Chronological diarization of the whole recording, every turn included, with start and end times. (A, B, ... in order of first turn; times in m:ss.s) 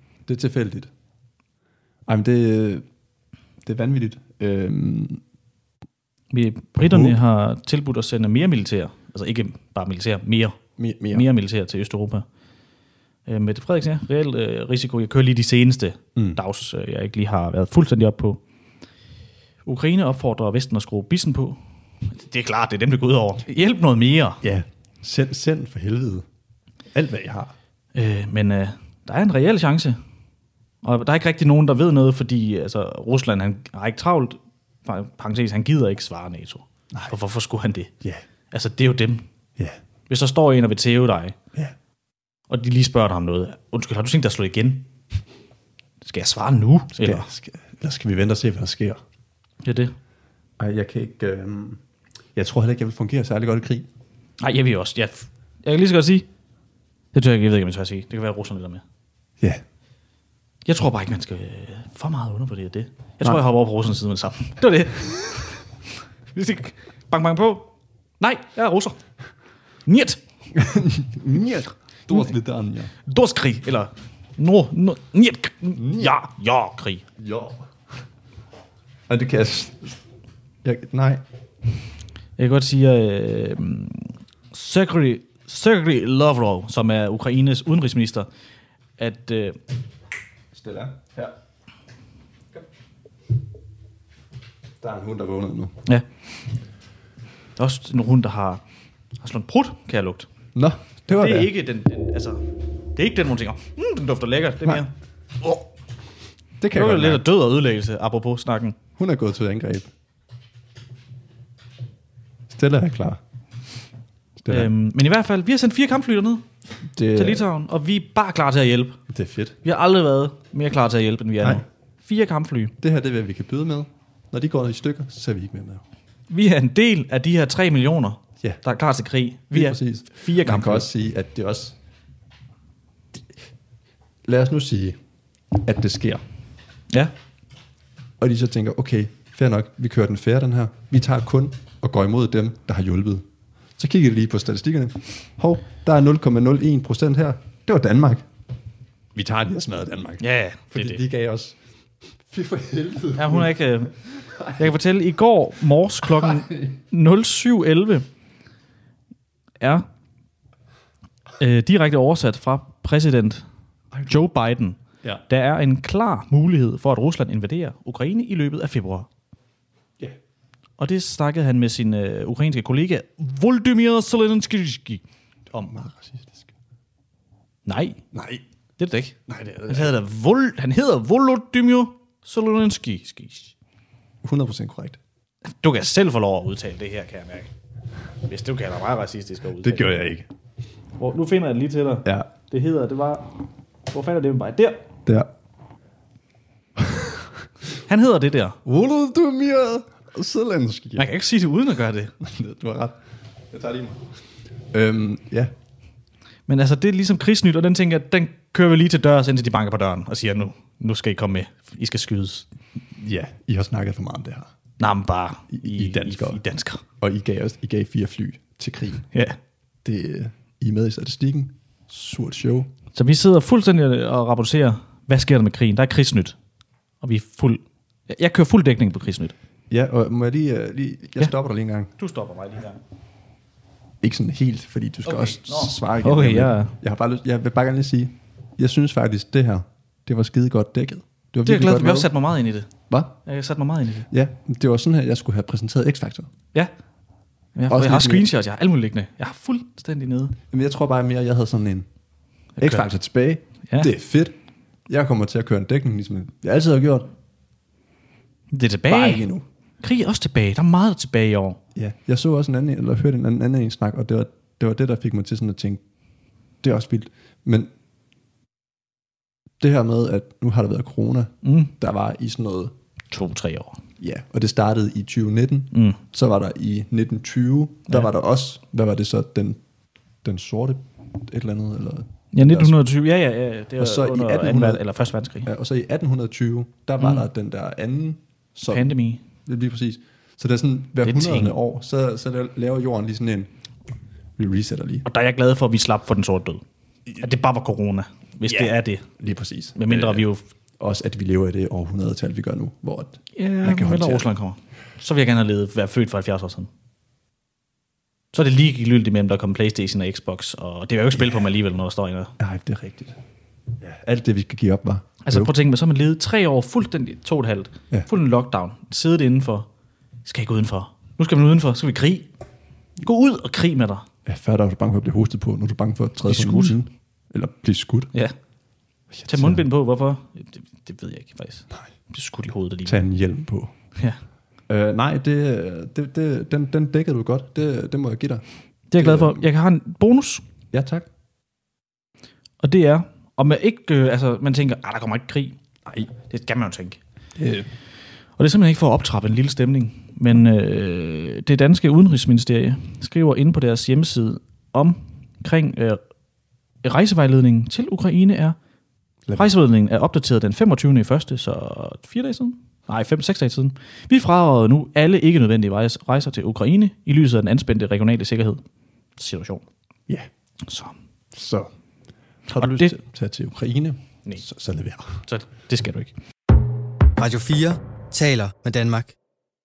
0:00.3-0:00.9 A
0:02.1-0:02.8 A
0:03.6-0:05.2 A
0:06.3-0:10.6 B
0:06.8-0:07.2 A
0:10.8-0:11.3 A
0:11.1-0:12.2 B
0:13.3-0:18.4 B
0:19.6-0:24.4 B
0:24.4-0:26.2 A
0:26.9-0:27.5 A
0:27.9-0:30.0 B
0:30.8-0:37.9 B
0:38.5-0:39.2 B
0:40.1-0:41.4 B
0:42.5-0:44.9 B
0:46.0-0:47.3 B
0:47.0-0:49.0 A
0:49.6-0:50.0 B
0:50.6-0:51.8 A
0:52.4-0:53.9 A
0:54.4-0:56.3 B
0:57.1-0:58.8 B
1:00.7-1:05.7 B
1:06.3-1:07.7 B
1:08.2-1:09.0 B
1:09.9-1:10.2 B
1:10.5-1:12.9 A
1:13.0-1:17.0 B
1:15.8-1:16.2 A
1:17.2-1:17.7 A
1:19.1-1:20.0 A
1:20.6-1:21.2 A
1:22.4-1:28.3 B
1:29.0-1:29.6 B
1:30.5-1:31.3 A
1:34.8-1:35.7 A
1:37.6-1:38.6 B
1:39.2-1:40.3 B
1:40.6-1:41.5 A
1:41.1-1:42.4 B
1:43.0-1:44.9 B
1:45.4-1:45.7 B
1:46.6-1:47.2 A
1:46.7-1:48.8 B
1:49.0-1:49.9 A
1:52.5-1:53.2 A
1:54.4-1:54.7 A
1:54.5-1:56.4 B
1:56.9-1:57.5 A
1:57.1-1:59.0 B
1:59.1-1:59.6 A
1:59.6-2:02.7 B
2:01.4-2:01.6 A
2:02.8-2:05.8 A
2:06.3-2:10.9 B
2:09.5-2:11.8 A
2:14.2-2:15.0 A
2:15.5-2:16.2 A
2:18.2-2:23.2 A
2:23.8-2:28.3 A
2:29.1-2:31.6 A
2:30.2-2:31.0 B
2:32.3-2:33.6 A
2:33.2-2:34.0 B
2:34.1-2:34.7 A
2:34.6-2:38.0 B
2:36.2-2:36.7 A
2:39.6-2:39.9 B
2:41.4-2:43.4 B
2:43.9-2:44.2 A
2:44.1-2:49.1 B
2:50.8-2:55.0 B
2:55.5-2:56.5 A
2:57.7-2:58.0 B
2:58.1-2:58.4 A
2:58.8-3:03.5 B
2:59.3-2:59.9 A
3:04.2-3:05.0 A
3:05.6-3:07.5 B
3:08.2-3:10.0 B
3:09.6-3:10.3 A
3:11.0-3:13.3 B
3:12.0-3:12.3 A
3:13.9-3:14.8 B
3:16.8-3:17.4 A
3:17.8-3:18.6 B
3:18.6-3:21.1 A
3:21.0-3:22.1 B
3:22.2-3:23.0 A
3:23.5-3:24.0 A
3:24.7-3:25.5 A
3:26.5-3:32.5 B
3:33.0-3:34.5 A
3:34.8-3:36.8 B
3:35.5-3:36.4 A
3:37.0-3:39.0 A
3:39.1-3:39.4 B
3:39.8-3:42.7 A
3:42.9-3:46.4 B
3:47.0-3:49.3 B
3:49.7-3:51.9 A
3:52.0-3:52.8 B
3:54.0-4:02.1 A
3:55.0-3:56.7 B
4:01.4-4:02.7 B
4:02.9-4:03.2 A
4:03.3-4:04.1 B
4:04.1-4:06.3 A
4:07.6-4:10.4 B
4:07.7-4:08.3 A
4:10.5-4:11.9 A
4:12.6-4:12.9 B
4:12.6-4:14.4 A
4:14.9-4:17.1 A
4:18.5-4:19.2 B
4:18.9-4:19.4 A
4:19.8-4:21.6 B
4:21.7-4:25.8 A
4:26.6-4:27.7 A
4:29.6-4:32.7 A
4:31.4-4:31.7 B
4:33.1-4:33.8 B
4:34.0-4:39.6 A
4:35.7-4:36.0 B
4:40.2-4:42.8 A
4:42.3-4:45.5 B
4:43.8-4:44.8 A
4:45.4-4:48.9 A
4:48.7-4:49.2 B
4:49.4-4:53.5 A
4:51.0-4:51.6 B
4:54.4-4:55.0 A
4:55.0-4:56.6 B
4:57.2-4:59.0 B
4:58.4-5:00.3 A
4:59.8-5:00.4 B
5:00.8-5:04.3 A
5:03.4-5:06.7 B
5:08.3-5:12.3 B
5:12.4-5:13.2 A
5:13.8-5:15.5 A
5:15.2-5:19.7 B
5:20.2-5:22.3 B
5:23.0-5:24.1 B
5:24.2-5:28.1 A
5:26.2-5:26.8 B
5:29.1-5:29.6 A
5:29.3-5:33.0 B
5:32.9-5:33.7 A
5:34.7-5:38.4 A
5:38.9-5:40.4 B
5:39.0-5:39.5 A
5:40.7-5:41.1 A
5:42.6-5:45.6 B
5:45.9-5:46.1 A
5:46.3-5:47.0 B
5:47.4-5:47.7 A
5:48.4-5:56.0 B
5:56.8-5:58.6 B
5:59.3-5:59.5 A
5:59.3-6:08.6 B
6:09.2-6:09.6 B
6:10.6-6:10.9 B
6:11.3-6:11.7 A
6:12.5-6:15.2 A
6:12.5-6:13.0 B
6:15.3-6:16.1 B
6:17.2-6:19.1 C